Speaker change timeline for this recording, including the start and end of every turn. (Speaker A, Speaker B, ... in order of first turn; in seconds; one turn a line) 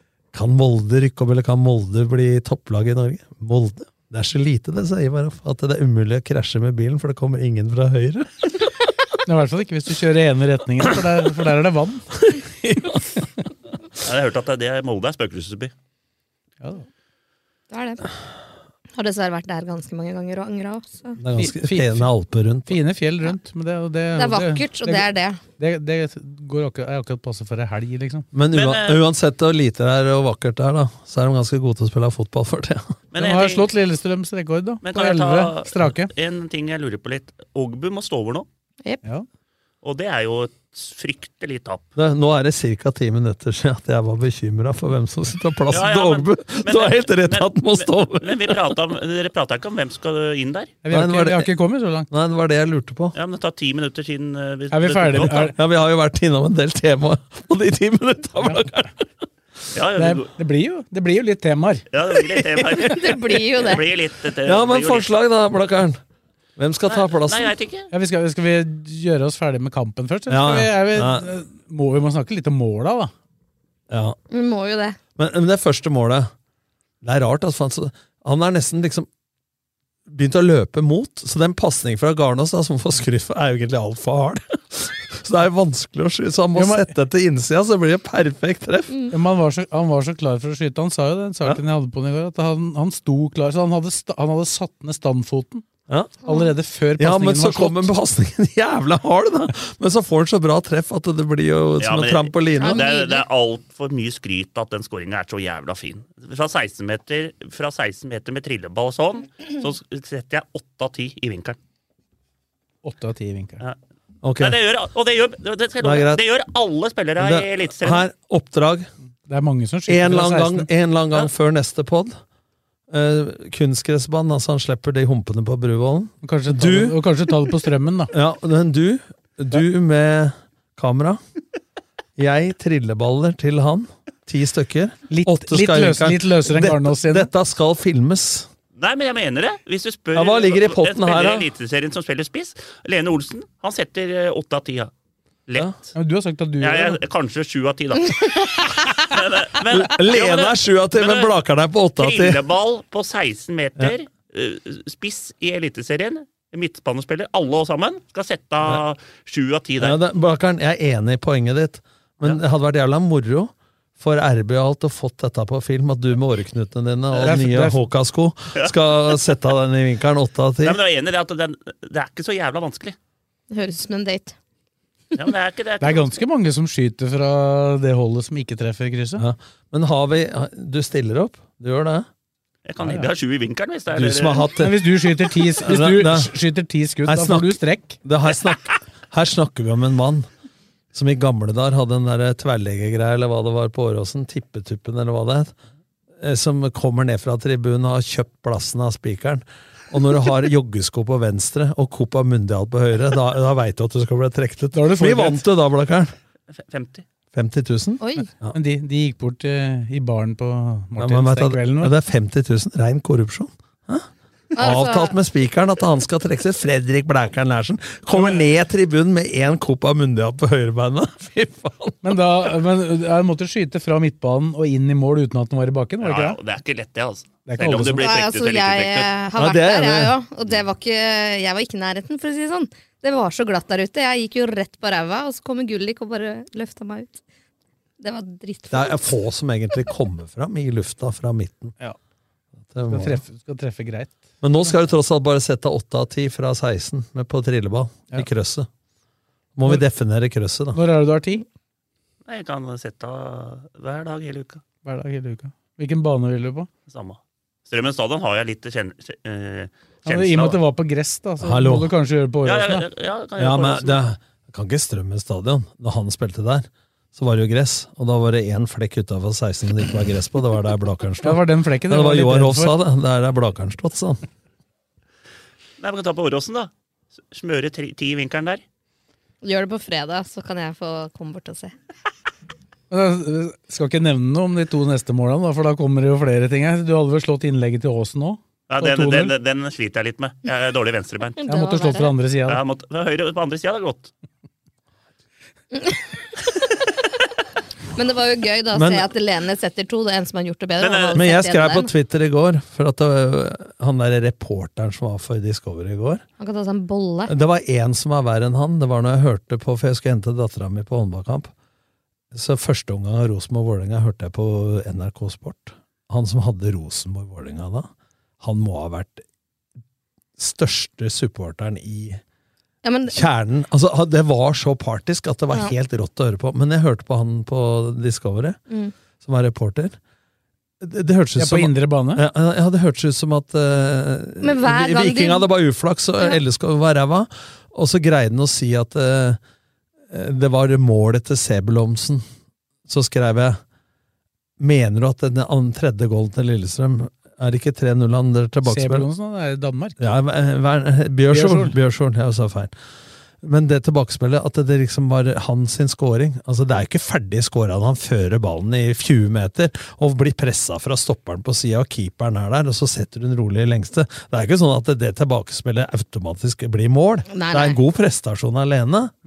Speaker A: 0.3-8.5
Speaker B: 9.2-12.1
Speaker A: 12.2-13.3
Speaker C: 14.0-15.7
Speaker D: 17.7-18.1
Speaker D: 18.9-21.2
Speaker A: 21.2-22.8
Speaker B: 21.4-22.1
Speaker B: 22.7-25.1
Speaker D: 24.1-25.4
Speaker B: 25.6-28.2
Speaker A: 28.3-32.9
Speaker C: 28.5-29.0
Speaker C: 33.1-33.7
Speaker B: 33.1-36.1
Speaker C: 34.8-38.5
Speaker C: 39.8-41.8
Speaker A: 42.0-48.6
Speaker C: 45.7-50.7
Speaker B: 50.8-52.1
Speaker A: 50.9-51.5
Speaker A: 52.1-53.1
Speaker C: 53.1-55.5
Speaker B: 54.7-55.5
Speaker A: 55.5-59.0
Speaker C: 59.7-60.3
Speaker B: 60.0-61.9
Speaker C: 61.9-65.1
Speaker D: 62.8-63.8
Speaker A: 64.4-66.0
Speaker A: 66.6-67.5
Speaker C: 66.9-67.9
Speaker B: 67.9-73.1
Speaker A: 70.3-71.3
Speaker A: 73.9-74.2
Speaker D: 74.3-75.0
Speaker A: 75.2-76.3
Speaker A: 77.0-79.1
Speaker A: 80.1-89.0
Speaker B: 86.5-86.9
Speaker B: 89.1-95.6
Speaker A: 95.9-96.2
Speaker B: 96.2-97.9
Speaker A: 97.0-102.9
Speaker C: 101.8-111.6
Speaker D: 102.6-103.2
Speaker B: 112.8-113.6
Speaker A: 114.2-114.6
Speaker C: 114.4-118.1
Speaker A: 115.8-116.2
Speaker A: 117.2-118.9
Speaker B: 119.3-120.7
Speaker A: 119.9-122.2
Speaker A: 122.9-127.0
Speaker B: 126.2-128.1
Speaker A: 128.1-131.2
Speaker A: 132.2-138.5
Speaker B: 135.1-137.3
Speaker C: 138.8-144.9
Speaker A: 140.1-141.5
Speaker C: 145.5-145.8
Speaker B: 145.9-147.0
Speaker C: 146.6-148.3
Speaker D: 148.2-149.0
Speaker C: 149.0-151.3
Speaker A: 149.7-152.4
Speaker C: 152.0-160.0
Speaker A: 159.8-170.8
Speaker B: 167.2-167.8
Speaker C: 170.6-172.9
Speaker D: 173.5-174.3
Speaker C: 175.1-176.1
Speaker B: 175.8-179.2
Speaker A: 179.2-182.1
Speaker C: 182.7-184.4
Speaker B: 182.8-183.1
Speaker A: 183.9-184.8
Speaker B: 184.6-188.0
Speaker A: 185.6-186.3
Speaker A: 187.1-190.3
Speaker A: 190.9-195.5
Speaker A: 196.2-206.1
Speaker B: 204.7-205.4
Speaker C: 206.7-207.0
Speaker A: 207.3-208.6
Speaker D: 208.0-208.3
Speaker B: 208.2-211.9
Speaker A: 211.0-222.2
Speaker D: 214.6-215.1
Speaker B: 222.0-226.4
Speaker C: 226.0-229.1
Speaker B: 227.4-228.1
Speaker D: 228.0-237.2
Speaker A: 229.3-230.1
Speaker D: 238.0-239.0
Speaker A: 238.7-241.8
Speaker A: 242.7-243.2
Speaker B: 242.9-244.7
Speaker A: 244.4-248.7
Speaker A: 249.6-250.8
Speaker B: 250.7-251.4
Speaker C: 252.2-254.6
Speaker B: 254.8-256.7
Speaker C: 256.9-260.6
Speaker B: 260.1-262.9
Speaker A: 261.4-261.9
Speaker C: 262.4-264.0
Speaker A: 263.4-274.2
Speaker B: 271.2-272.8
Speaker C: 275.8-276.7
Speaker C: 277.3-278.6
Speaker D: 279.4-281.7
Speaker B: 282.9-289.3
Speaker C: 288.7-291.4
Speaker D: 291.4-292.1
Speaker B: 291.5-292.6
Speaker C: 292.5-294.1
Speaker D: 297.9-301.9
Speaker A: 298.7-299.1
Speaker C: 300.8-301.2
Speaker A: 301.1-306.2
Speaker D: 306.4-307.3
Speaker A: 307.3-311.5
Speaker A: 312.3-317.9
Speaker A: 318.4-319.2
Speaker A: 320.4-322.2
Speaker D: 322.8-323.2
Speaker A: 323.1-328.6
Speaker A: 329.2-330.0
Speaker A: 330.8-339.4
Speaker B: 331.4-332.2
Speaker D: 334.4-335.4
Speaker A: 340.1-342.2
Speaker A: 342.9-343.6
Speaker A: 344.6-349.1
Speaker B: 348.6-350.1
Speaker A: 350.0-352.7
Speaker B: 351.3-351.8
Speaker A: 353.4-369.1
Speaker D: 367.3-367.8